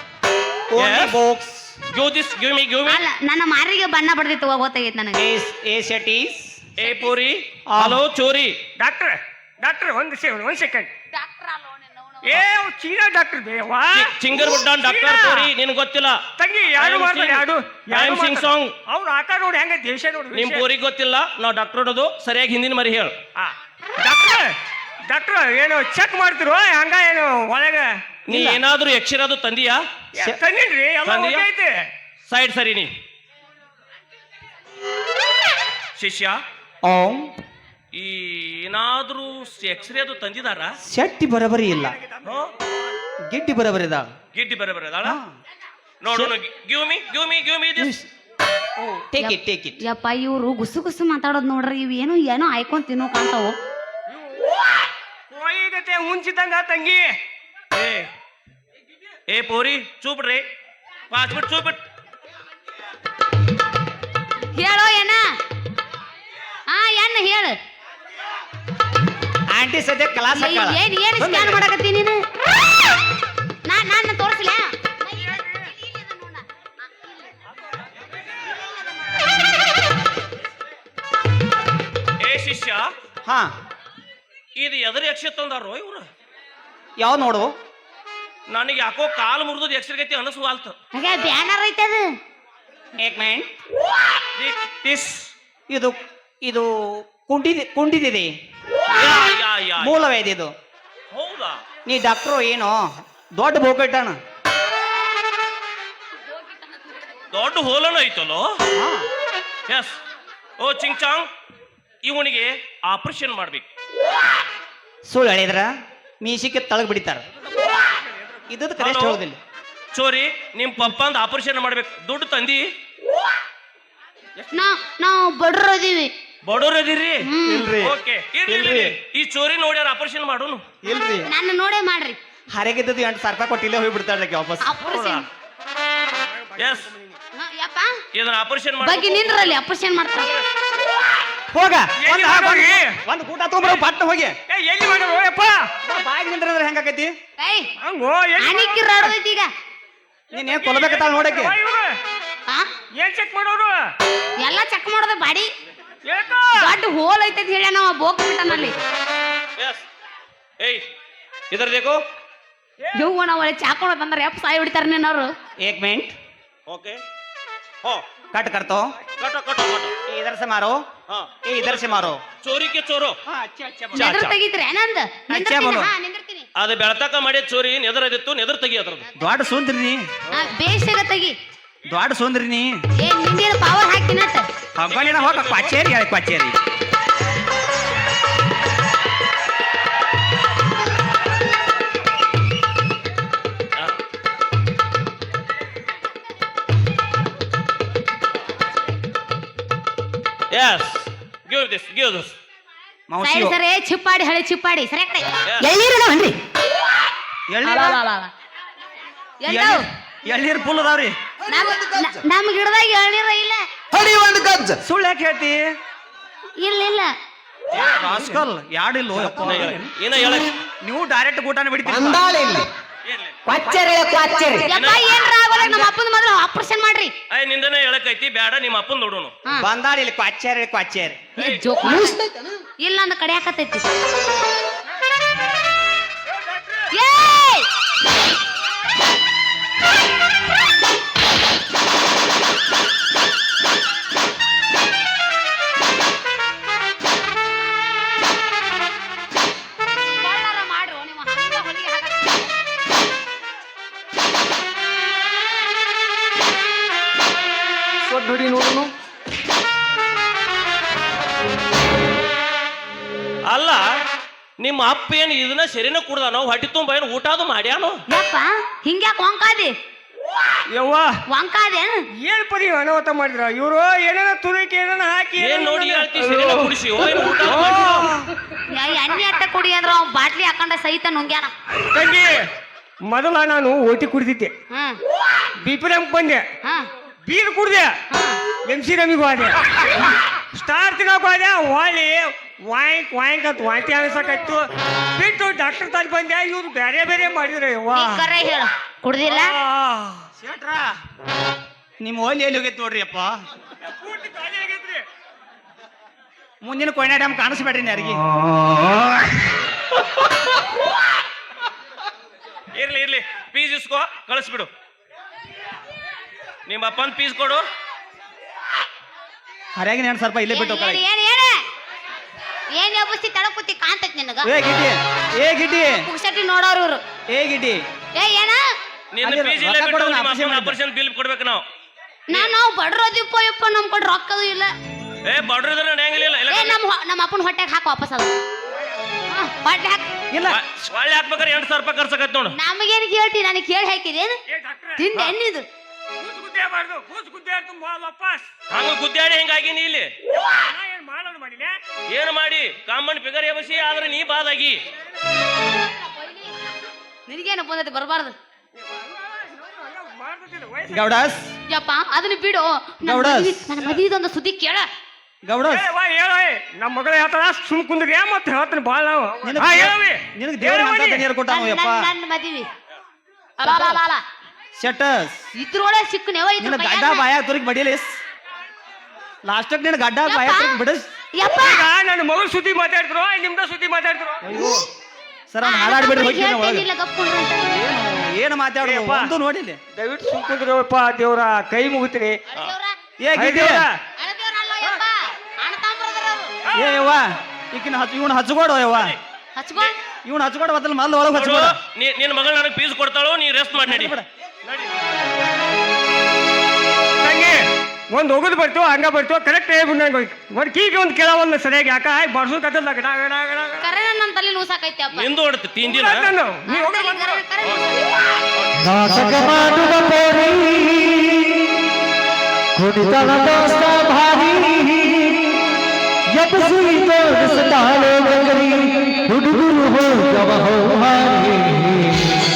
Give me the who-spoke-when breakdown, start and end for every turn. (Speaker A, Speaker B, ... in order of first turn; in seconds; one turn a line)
Speaker A: 0.7-1.8
Speaker B: 0.8-1.2
Speaker B: 1.9-3.0
Speaker C: 2.9-5.2
Speaker A: 5.2-6.6
Speaker B: 6.8-8.6
Speaker A: 7.7-8.0
Speaker D: 8.8-10.9
Speaker C: 11.1-12.4
Speaker D: 12.2-15.5
Speaker B: 13.9-16.2
Speaker D: 16.4-20.6
Speaker B: 16.8-18.8
Speaker B: 20.3-23.1
Speaker D: 23.4-24.6
Speaker D: 25.1-28.2
Speaker B: 28.3-29.8
Speaker A: 28.3-28.6
Speaker D: 30.1-31.9
Speaker B: 31.1-31.5
Speaker B: 32.3-32.9
Speaker B: 36.0-36.4
Speaker A: 36.8-37.4
Speaker B: 37.9-40.8
Speaker A: 40.8-42.0
Speaker B: 42.2-42.5
Speaker A: 43.3-44.1
Speaker B: 44.3-45.2
Speaker A: 45.0-45.4
Speaker B: 46.0-48.0
Speaker A: 47.8-48.1
Speaker A: 48.8-49.8
Speaker C: 49.2-53.6
Speaker D: 55.3-57.2
Speaker B: 57.7-58.1
Speaker B: 59.3-60.5
Speaker B: 61.1-61.8
Speaker C: 64.5-65.4
Speaker C: 66.7-67.6
Speaker A: 69.5-71.7
Speaker C: 70.3-72.2
Speaker C: 73.7-76.4
Speaker B: 82.2-82.9
Speaker A: 83.2-83.5
Speaker B: 84.6-86.1
Speaker A: 87.0-87.5
Speaker B: 88.5-90.8
Speaker C: 90.9-92.1
Speaker A: 93.0-93.5
Speaker B: 94.4-95.3
Speaker A: 95.7-98.3
Speaker B: 99.0-100.0
Speaker A: 99.8-100.5
Speaker B: 101.1-101.6
Speaker A: 101.9-104.2
Speaker B: 107.3-108.5
Speaker A: 108.8-109.1
Speaker B: 109.7-110.0
Speaker B: 110.6-111.3
Speaker B: 112.0-113.7
Speaker A: 115.1-115.7
Speaker A: 116.2-117.2
Speaker A: 118.5-119.4
Speaker B: 118.8-119.2
Speaker B: 119.9-122.7
Speaker C: 124.5-126.1
Speaker B: 126.5-127.3
Speaker C: 127.2-127.7
Speaker A: 127.4-128.0
Speaker B: 127.8-130.7
Speaker A: 128.5-129.0
Speaker A: 130.8-131.3
Speaker C: 130.9-132.2
Speaker A: 132.5-134.7
Speaker C: 134.6-135.2
Speaker B: 134.8-135.3
Speaker B: 136.6-136.9
Speaker C: 137.3-138.0
Speaker B: 138.1-139.3
Speaker C: 138.8-140.3
Speaker A: 141.5-144.4
Speaker D: 142.0-143.0
Speaker D: 144.5-145.7
Speaker A: 145.8-147.1
Speaker C: 147.4-147.7
Speaker D: 147.8-149.1
Speaker C: 148.4-149.5
Speaker A: 150.3-151.6
Speaker D: 150.3-152.0
Speaker D: 152.9-153.8
Speaker C: 154.4-155.5
Speaker D: 156.1-156.7
Speaker C: 156.6-158.8
Speaker B: 159.6-159.8
Speaker B: 160.6-160.9
Speaker B: 161.5-162.0
Speaker C: 162.9-165.3
Speaker A: 165.6-166.1
Speaker B: 166.7-167.0
Speaker A: 168.3-168.9
Speaker B: 169.2-169.9
Speaker A: 170.1-170.8
Speaker B: 171.1-173.2
Speaker A: 171.4-172.2
Speaker A: 173.3-174.2
Speaker B: 173.9-174.3
Speaker C: 173.9-176.5
Speaker A: 175.3-175.9
Speaker B: 176.6-179.1
Speaker A: 179.2-180.1
Speaker C: 180.3-181.4
Speaker A: 181.8-182.7
Speaker C: 183.0-184.5
Speaker A: 184.8-186.6
Speaker B: 184.9-185.8
Speaker B: 200.5-202.3
Speaker A: 203.1-203.6
Speaker C: 203.2-205.3
Speaker B: 205.5-205.8
Speaker C: 205.8-206.3
Speaker A: 207.5-208.0
Speaker C: 207.7-208.3
Speaker C: 209.4-209.8
Speaker A: 209.5-211.1
Speaker C: 211.5-213.7
Speaker E: 214.0-214.8
Speaker A: 214.8-215.7
Speaker C: 216.6-217.1
Speaker A: 217.7-219.8
Speaker B: 217.8-218.2
Speaker B: 219.4-220.6
Speaker A: 220.8-222.6
Speaker B: 223.1-223.4
Speaker E: 223.8-224.4
Speaker C: 224.4-227.1
Speaker B: 224.7-225.2
Speaker A: 225.5-225.9
Speaker B: 227.3-229.3
Speaker A: 229.6-231.2
Speaker B: 231.4-231.6
Speaker C: 231.4-232.2
Speaker C: 232.8-233.8
Speaker C: 236.9-237.7
Speaker C: 250.2-252.5
Speaker D: 258.4-258.8
Speaker B: 263.5-263.8
Speaker B: 264.6-268.0
Speaker C: 268.1-269.7
Speaker D: 270.7-271.2
Speaker C: 271.3-272.0
Speaker D: 272.2-278.3
Speaker B: 275.4-278.2
Speaker C: 278.7-281.5
Speaker D: 281.9-282.5
Speaker D: 283.1-284.5
Speaker C: 284.7-285.0
Speaker D: 285.6-286.4
Speaker C: 286.6-286.9
Speaker D: 287.3-288.0
Speaker C: 288.1-288.4
Speaker D: 288.6-289.6
Speaker D: 290.5-298.3
Speaker C: 297.9-299.5
Speaker D: 299.3-300.3
Speaker A: 300.4-300.9
Speaker A: 302.0-303.3
Speaker D: 303.8-305.1
Speaker A: 306.6-308.3
Speaker B: 312.7-314.7
Speaker B: 316.7-317.6
Speaker A: 319.8-321.0
Speaker C: 320.5-321.6
Speaker C: 322.7-324.5
Speaker A: 324.4-326.0
Speaker C: 326.0-327.0
Speaker A: 327.3-327.8
Speaker C: 328.2-328.6
Speaker B: 329.1-331.6
Speaker A: 329.2-330.8
Speaker C: 332.3-334.7
Speaker B: 335.2-336.8
Speaker C: 336.5-338.4
Speaker C: 339.3-340.1
Speaker A: 340.3-340.6
Speaker B: 340.5-342.6
Speaker C: 342.5-344.4
Speaker D: 344.5-345.1
Speaker C: 345.0-345.7
Speaker D: 346.2-348.5
Speaker B: 348.7-350.1
Speaker D: 350.5-351.8
Speaker B: 352.1-354.8
Speaker C: 356.0-356.5
Speaker C: 357.3-358.4
Speaker D: 358.8-361.1
Speaker A: 360.9-361.5
Speaker C: 361.7-364.9
Speaker A: 363.0-363.7
Speaker A: 365.4-365.9
Speaker D: 365.7-371.3
Speaker A: 369.4-372.1
Speaker C: 371.5-372.7
Speaker C: 373.6-374.2
Speaker A: 374.8-375.5
Speaker C: 375.6-377.3
Speaker A: 376.6-378.2
Speaker A: 379.4-381.1
Speaker C: 380.2-380.8
Speaker C: 381.4-381.9
Speaker D: 381.6-384.7
Speaker A: 385.5-386.9
Speaker C: 385.6-387.7
Speaker A: 387.6-389.8
Speaker D: 388.8-389.3
Speaker D: 389.9-392.4
Speaker C: 392.5-392.9
Speaker A: 393.2-393.9
Speaker D: 393.4-394.0
Speaker C: 394.2-396.5
Speaker A: 396.7-399.2
Speaker C: 399.6-399.9
Speaker A: 400.2-401.8
Speaker B: 401.3-404.9
Speaker A: 403.8-404.3
Speaker D: 407.2-413.8
Speaker C: 413.8-415.3
Speaker B: 415.1-416.3
Speaker D: 415.8-417.4
Speaker C: 416.7-418.2
Speaker B: 417.6-417.9
Speaker B: 418.5-419.0
Speaker F: 419.1-421.6
Speaker F: 422.8-425.4
Speaker E: 422.9-423.6
Speaker E: 424.2-424.6
Speaker F: 426.4-429.2
Speaker E: 427.6-428.7
Speaker E: 429.3-431.1
Speaker F: 429.8-432.3